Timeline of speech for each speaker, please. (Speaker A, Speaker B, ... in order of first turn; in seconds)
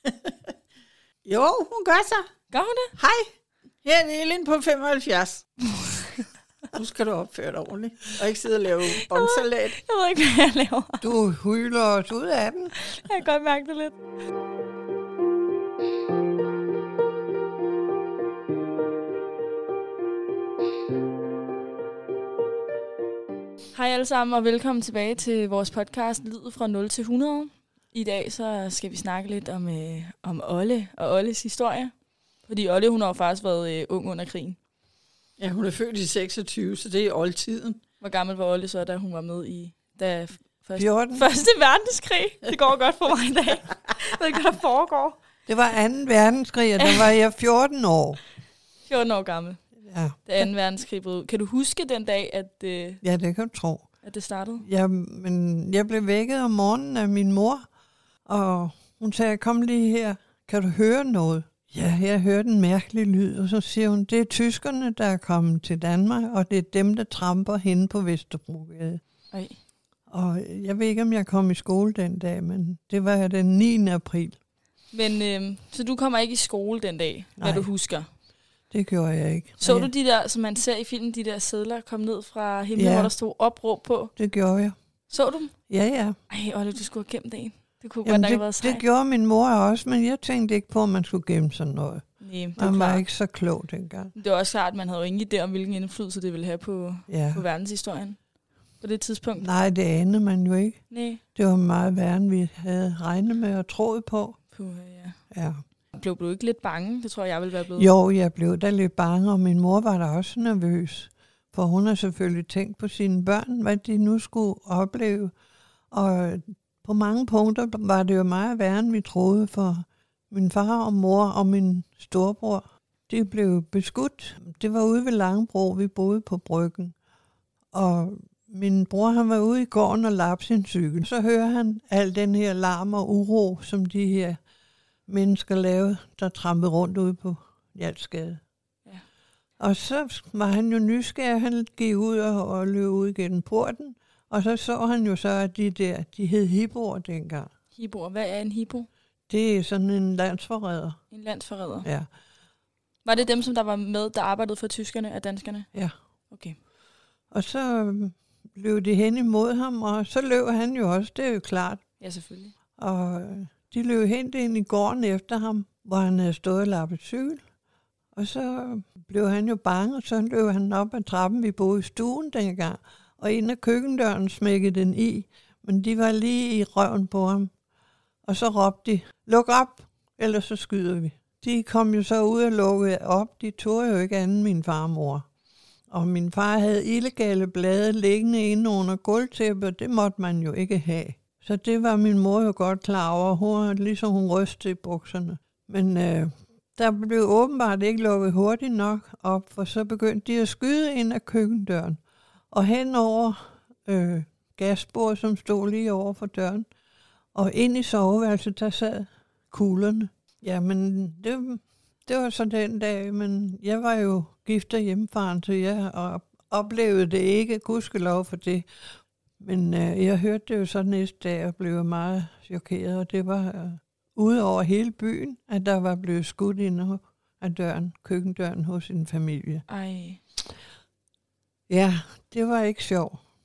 Speaker A: 1.2-2.2, 3.0-3.3, 3.8-5.4, 6.7-9.8, 35.4-37.8
Speaker B: 2.5-2.9, 5.6-6.3, 9.1-11.1, 12.8-14.0, 23.7-31.9, 32.5-34.6, 38.0-45.2, 46.8-47.1, 48.8-49.6, 50.2-53.0, 54.0-54.7, 69.3-69.6, 74.9-78.1, 79.6-84.1, 85.1-85.5, 86.3-88.8, 92.2-93.0, 94.1-98.2, 98.8-99.5, 100.9-101.2, 104.5-105.2, 105.9-107.9, 147.7-148.9, 151.1-151.9, 153.0-155.7, 156.3-156.6, 162.0-162.5, 229.7-230.2
Speaker C: 11.0-12.7, 40.8-41.3, 45.5-48.2, 49.8-50.4, 53.0-53.9, 54.6-57.6, 58.2-69.0, 70.1-74.3, 77.4-77.7, 78.7-79.9, 82.7-83.1, 84.2-84.7, 85.7-86.2, 88.0-92.0, 92.5-94.1, 97.1-97.4, 99.4-100.8, 101.3-104.4, 105.3-105.6, 107.8-115.3, 115.9-126.9, 127.7-134.4, 135.1-138.4, 139.6-147.5, 149.3-151.0, 157.3-161.8, 162.8-167.4, 168.1-177.5, 178.2-185.3, 185.9-202.0, 202.5-206.7, 207.3-218.7, 219.4-229.6, 231.7-233.2